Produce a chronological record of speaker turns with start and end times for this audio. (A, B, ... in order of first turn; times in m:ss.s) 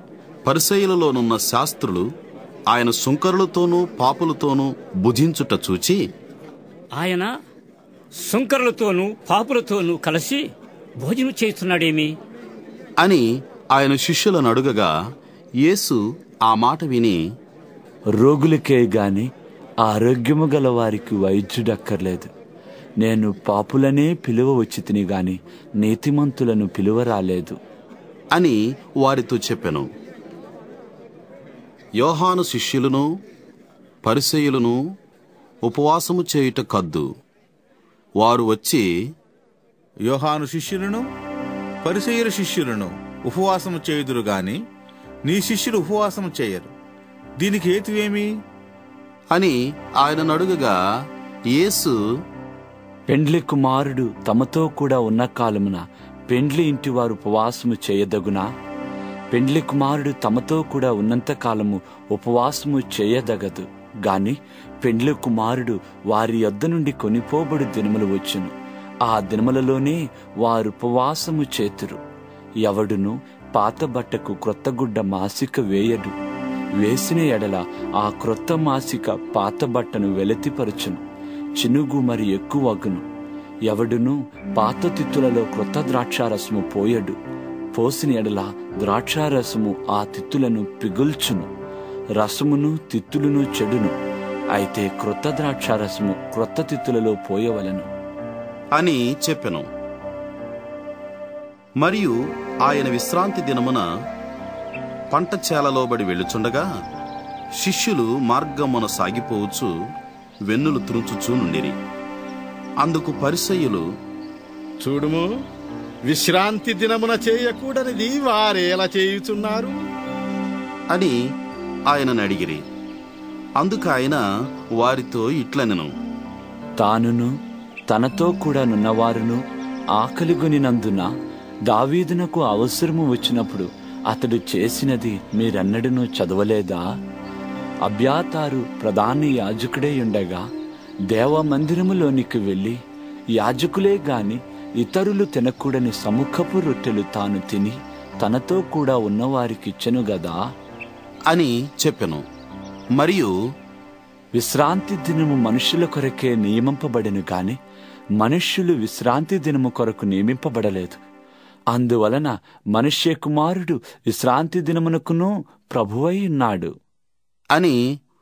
0:00.5-0:02.1 A
0:02.7-0:06.0 A
0:06.9-0:07.3 B
0:08.2-0:10.5 B
0:11.0-0:12.2 B
0:13.0-0:14.9 A
0:15.6-0:17.2 A
0:18.2-0:19.3 C
0:19.9-0:22.3 C
0:23.0-0:27.6 C
0:28.4-0:29.9 A
0:32.0-0:33.1 A
0:34.0-0:34.8 A
0:35.6-0:37.1 A
0:38.2-0:38.9 A
0:40.1-0:41.1 D
0:41.8-0:44.6 D
0:45.3-0:46.7 D
0:47.4-0:48.3 D
0:49.3-0:50.8 A
0:51.5-0:52.0 A
0:53.1-0:58.4 C
0:59.3-1:08.5 C
1:09.1-1:12.0 C
1:12.7-1:16.2 C
1:16.8-1:21.0 C
1:21.6-1:23.0 C
1:23.7-1:27.2 C
1:27.8-1:31.5 C
1:32.2-1:34.0 C
1:34.6-1:37.9 C
1:38.8-1:39.7 A
1:41.8-1:43.9 A
1:45.1-1:46.7 A
1:47.6-1:49.7 A
1:50.5-1:51.8 A
1:52.8-1:53.9 A
1:54.8-1:55.3 E
1:56.1-1:59.8 E
2:00.9-2:01.2 A
2:01.9-2:02.6 A
2:03.6-2:04.2 A
2:04.8-2:05.9 A
2:06.8-2:07.3 C
2:07.9-2:09.4 C
2:10.0-2:11.1 C
2:11.7-2:16.8 C
2:17.9-2:20.4 C
2:21.1-2:22.8 C
2:23.4-2:30.4 C
2:31.3-2:32.2 A
2:33.0-2:33.3 A
2:34.4-2:37.6 C
2:38.2-2:41.0 C
2:41.7-2:46.7 C
2:47.6-2:47.8 A